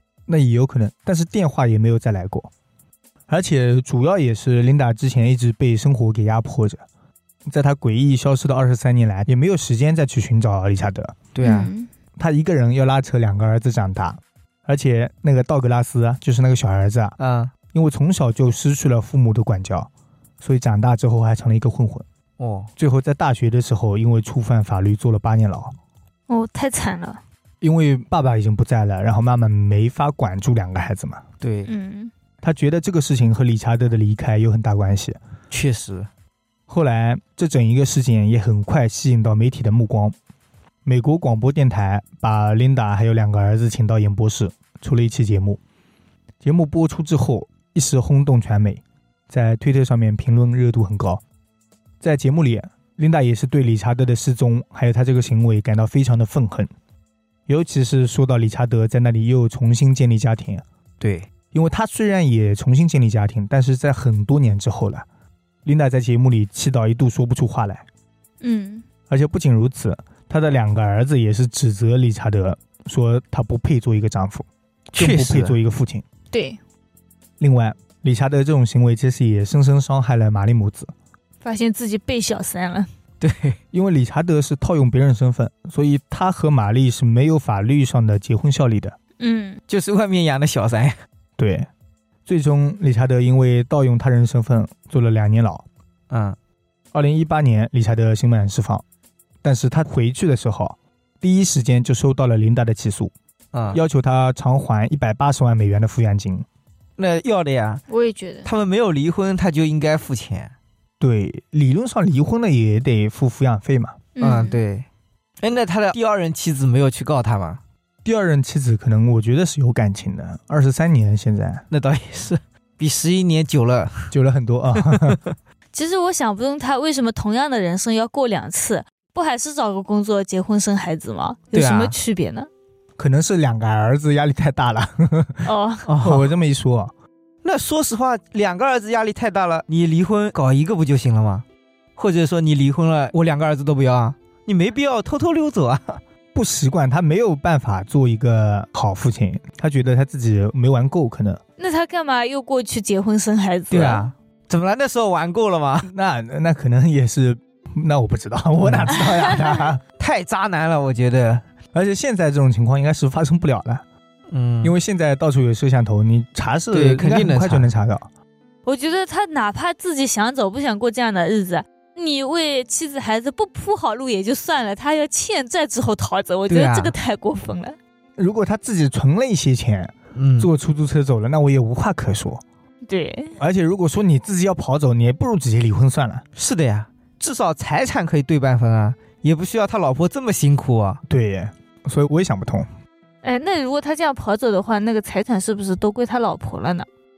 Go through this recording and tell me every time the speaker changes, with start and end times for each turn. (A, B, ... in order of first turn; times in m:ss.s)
0:00.3-0:02.5 A
0:03.3-0:06.8 A
0:07.5-0:11.2 A
0:11.3-0:11.7 B
0:11.4-0:11.9 C
0:12.2-0:17.2 A
0:17.2-0:17.5 B
0:17.7-0:19.9 A
0:20.4-0:22.0 A
0:22.4-0:22.7 B
0:22.8-0:25.7 A
0:26.3-0:27.2 C
0:27.6-0:31.2 A
0:31.4-0:31.7 B
0:31.6-0:32.1 C
0:32.4-0:35.2 A
0:35.5-0:36.1 B
0:36.7-0:40.1 A
0:40.8-0:45.6 A
0:46.4-0:51.2 A
0:52.0-0:56.7 A
0:57.5-1:00.6 A
1:01.0-1:01.3 B
1:01.5-1:05.0 A
1:05.6-1:07.8 A
1:08.4-1:08.8 C
1:09.1-1:16.0 A
1:14.9-1:15.6 B
1:16.3-1:16.6 C
1:17.4-1:20.9 A
1:21.4-1:22.9 C
1:23.2-1:23.6 B
1:23.7-1:29.0 A
1:29.2-1:29.6 C
1:29.7-1:31.0 B
1:31.4-1:31.7 A
1:32.2-1:35.6 A
1:36.1-1:36.4 B
1:36.9-1:38.8 A
1:39.4-1:43.1 A
1:43.5-1:43.8 B
1:43.7-1:46.4 A
1:47.0-1:47.8 B
1:47.9-1:48.5 C
1:48.4-1:50.5 B
1:51.0-1:54.0 A
1:54.2-1:54.6 C
1:54.2-1:54.9 B
1:55.4-1:57.6 B
1:58.0-2:01.6 A
2:01.7-2:04.1 B
2:04.1-2:05.2 A
2:04.8-2:05.4 B
2:05.7-2:12.5 C
2:11.5-2:12.0 B
2:13.0-2:15.5 A
2:15.4-2:15.9 C
2:15.8-2:16.3 B
2:16.0-2:16.9 A
2:17.4-2:21.4 B
2:22.0-2:26.0 B
2:26.3-2:31.4 A
2:31.6-2:34.1 C
2:33.7-2:35.9 B
2:35.8-2:39.8 A
2:38.6-2:39.0 B
2:40.0-2:41.4 B
2:41.7-2:43.8 A
2:44.3-2:44.7 B
2:44.6-2:48.1 A
2:46.7-2:47.7 B
2:48.6-2:57.8 C
2:56.5-2:56.9 B
2:58.2-3:02.4 A
3:00.1-3:00.5 B
3:02.8-3:03.4 C
3:03.4-3:06.2 A
3:06.4-3:11.0 B
3:11.1-3:12.7 A
3:13.2-3:16.8 C